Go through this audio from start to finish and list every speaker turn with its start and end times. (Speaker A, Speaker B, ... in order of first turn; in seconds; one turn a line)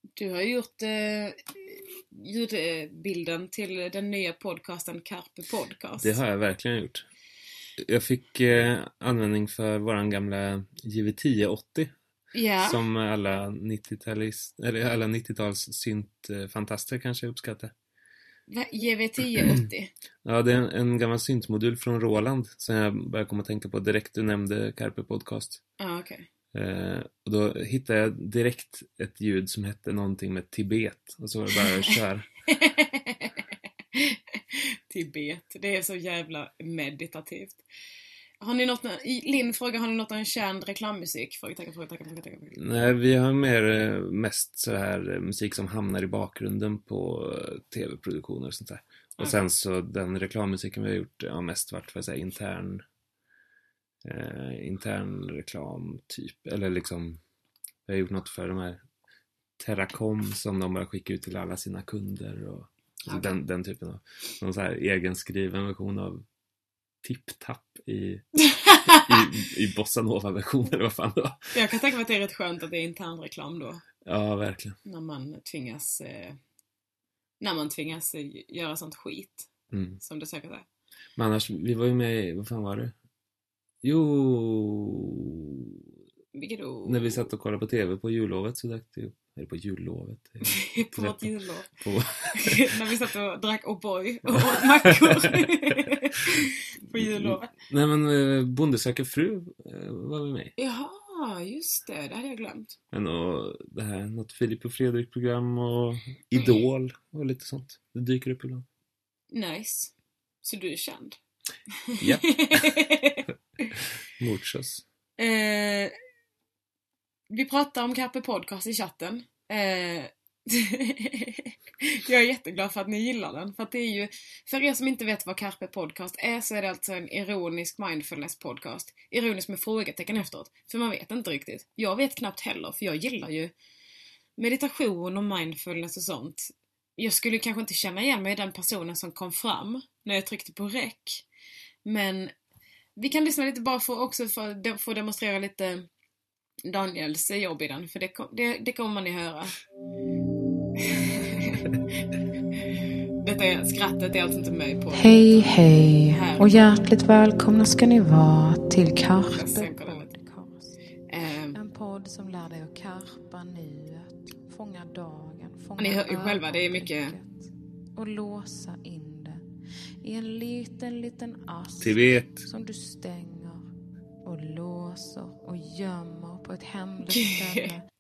Speaker A: 0.2-6.2
Speaker B: 6.0-7.1
Speaker B: 7.8-11.9
Speaker A: 12.3-12.8
Speaker B: 12.6-17.7
Speaker A: 18.5-19.9
Speaker B: 20.2-25.6
Speaker A: 25.8-26.3
Speaker B: 26.5-32.3
Speaker A: 32.5-37.6
Speaker A: 38.4-42.8
Speaker B: 42.5-52.9
Speaker B: 54.0-57.2
Speaker B: 57.9-58.8
Speaker B: 59.6-66.2
Speaker A: 63.1-63.4
Speaker B: 67.0-68.2
Speaker A: 68.5-69.3
Speaker B: 68.9-71.5
Speaker A: 71.5-73.8
Speaker B: 74.0-74.8
Speaker A: 74.8-76.4
Speaker A: 77.4-80.7
Speaker B: 79.7-80.0
Speaker B: 81.2-82.9
Speaker B: 83.8-85.8
Speaker A: 86.3-87.3
Speaker B: 86.8-91.3
Speaker A: 90.5-91.7
Speaker B: 91.8-92.7
Speaker A: 92.3-97.5
Speaker B: 94.3-95.5
Speaker B: 96.9-100.5
Speaker A: 100.6-102.8
Speaker B: 102.9-108.7
Speaker A: 109.3-111.2
Speaker A: 111.9-113.7
Speaker B: 112.0-112.8
Speaker B: 114.2-114.8
Speaker A: 115.2-115.9
Speaker A: 117.3-133.5
Speaker A: 134.4-141.3
Speaker A: 141.8-142.3
Speaker A: 143.0-145.9
Speaker A: 146.7-149.6
Speaker A: 150.8-151.7
Speaker A: 153.2-155.6
Speaker C: 154.9-160.8
Speaker A: 156.1-156.5
Speaker A: 159.3-160.1
Speaker A: 161.1-161.6
Speaker C: 161.6-169.4
Speaker A: 165.8-167.2
Speaker C: 170.0-173.7
Speaker B: 171.8-172.5
Speaker C: 174.2-177.8
Speaker A: 177.1-177.7